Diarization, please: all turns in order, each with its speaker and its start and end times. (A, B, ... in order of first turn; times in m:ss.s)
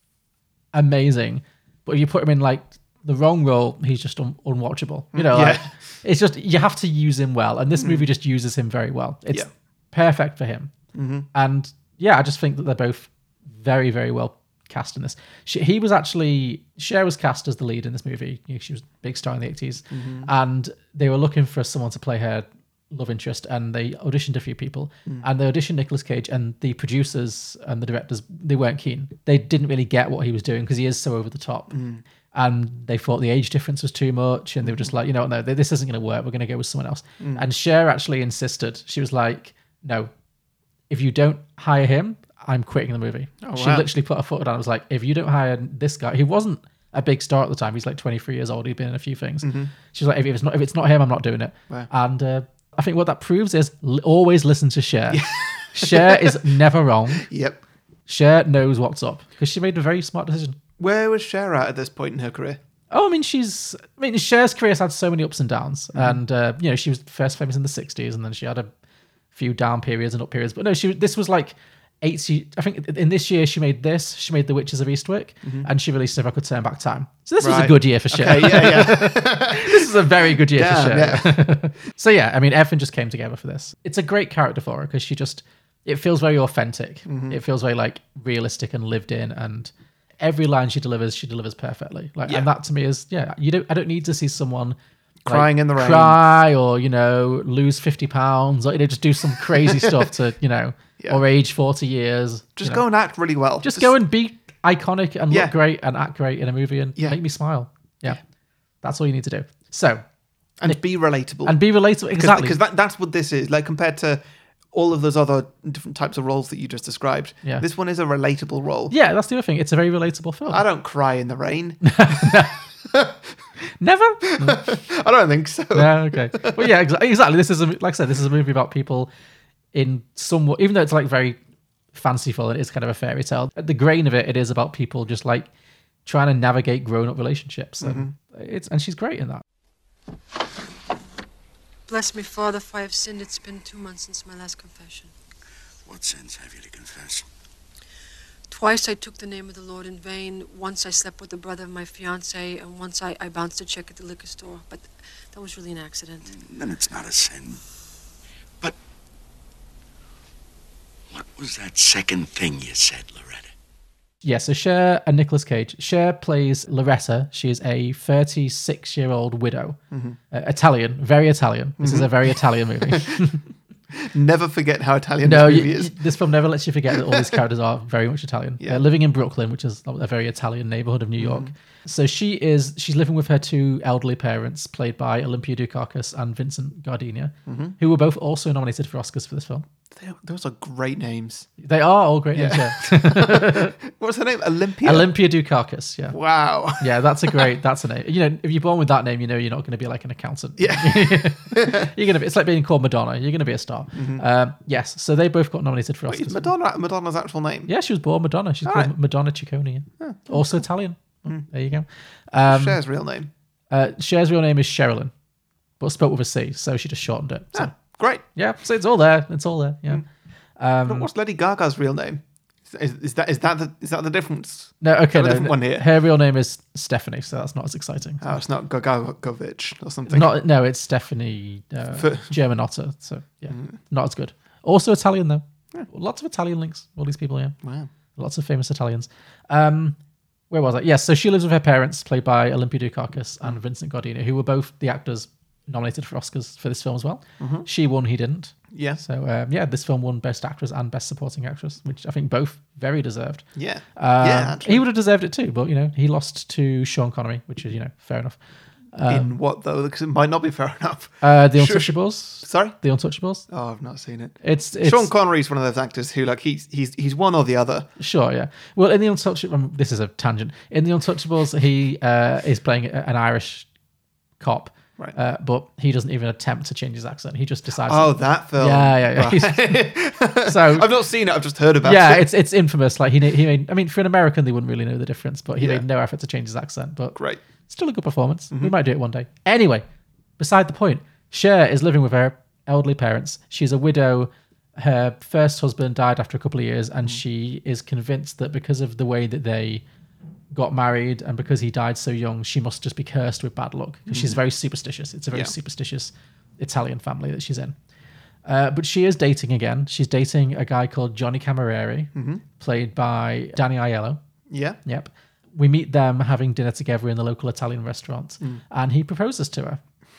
0:00.7-0:10.7 A
0:05.1-0:05.7 B
0:07.8-0:08.1 B
0:10.9-0:11.3 B
0:11.3-0:31.8 A
0:19.9-0:20.3 B
0:31.7-0:32.0 B
0:32.3-0:40.1 A
0:34.6-0:34.9 B
0:37.2-0:37.5 B
0:40.9-0:57.3 A
0:43.4-0:43.9 B
0:49.4-0:49.7 B
0:55.1-0:56.5 B
0:57.2-0:57.6 B
0:58.1-1:00.6 A
1:00.8-1:02.6 B
1:02.9-1:08.7 A
1:05.9-1:06.2 B
1:09.3-1:42.8 A
1:15.4-1:15.7 B
1:17.4-1:21.4 B
1:27.1-1:27.4 B
1:35.2-1:36.2 B
1:39.5-1:40.1 B
1:42.6-1:43.9 B
1:43.6-1:48.2 A
1:45.3-1:45.6 B
1:48.8-1:50.0 A
1:50.6-1:51.6 B
1:51.4-1:52.6 A
1:52.2-1:58.9 B
1:58.9-2:00.6 A
2:00.5-2:03.2 B
2:01.8-2:02.6 A
2:03.8-2:04.8 A
2:04.3-2:06.7 B
2:05.7-2:09.1 A
2:09.7-2:11.4 A
2:11.9-2:15.5 A
2:16.0-2:19.4 A
2:17.8-2:18.1 B
2:21.9-2:25.1 C
2:25.9-2:27.3 D
2:28.5-2:36.3 C
2:36.3-2:37.6 D
2:41.1-2:43.5 D
2:44.2-2:49.8 A
2:49.9-2:50.2 B
2:50.3-2:53.4 A
2:51.8-2:53.3 B
2:53.9-2:56.0 B
2:55.2-3:09.7 A
2:56.9-2:57.4 B
3:01.2-3:01.5 B
3:07.5-3:07.8 B
3:09.9-3:11.5 B
3:11.6-3:13.8 A
3:12.4-3:15.1 B
3:14.8-3:16.2 A
3:16.1-3:17.5 B
3:16.8-3:26.5 A
3:20.6-3:21.9 B
3:23.9-3:24.2 B
3:26.1-3:27.7 B
3:27.7-3:32.8 A
3:28.6-3:28.9 B
3:30.0-3:30.6 B
3:32.5-3:33.3 B
3:33.7-3:35.1 A
3:35.8-3:37.8 A
3:37.5-3:38.2 B
3:38.3-3:40.0 A
3:40.6-3:41.1 A
3:40.8-3:45.9 B
3:44.8-3:48.4 A
3:48.2-3:50.4 B
3:50.1-3:57.6 A
3:51.9-3:52.4 B
3:53.5-3:53.8 B
3:57.6-3:57.9 B
3:58.2-4:00.0 A
4:00.5-4:18.4 A
4:07.4-4:07.7 B
4:08.7-4:09.0 B
4:13.6-4:14.9 B
4:18.9-4:19.4 A
4:19.1-4:22.8 B
4:21.2-4:23.5 A
4:23.5-4:27.9 B
4:24.4-4:25.1 A
4:28.0-4:33.7 A
4:34.4-4:39.9 A
4:37.8-4:42.3 B
4:40.4-4:40.9 A
4:41.8-4:49.8 A
4:45.6-4:45.8 B
4:47.2-4:47.4 B
4:50.4-4:59.8 A
5:00.5-5:07.8 A
5:04.1-5:04.4 B
5:08.5-5:14.2 A
5:12.2-5:12.4 B
5:14.5-5:14.8 B
5:14.8-5:19.8 A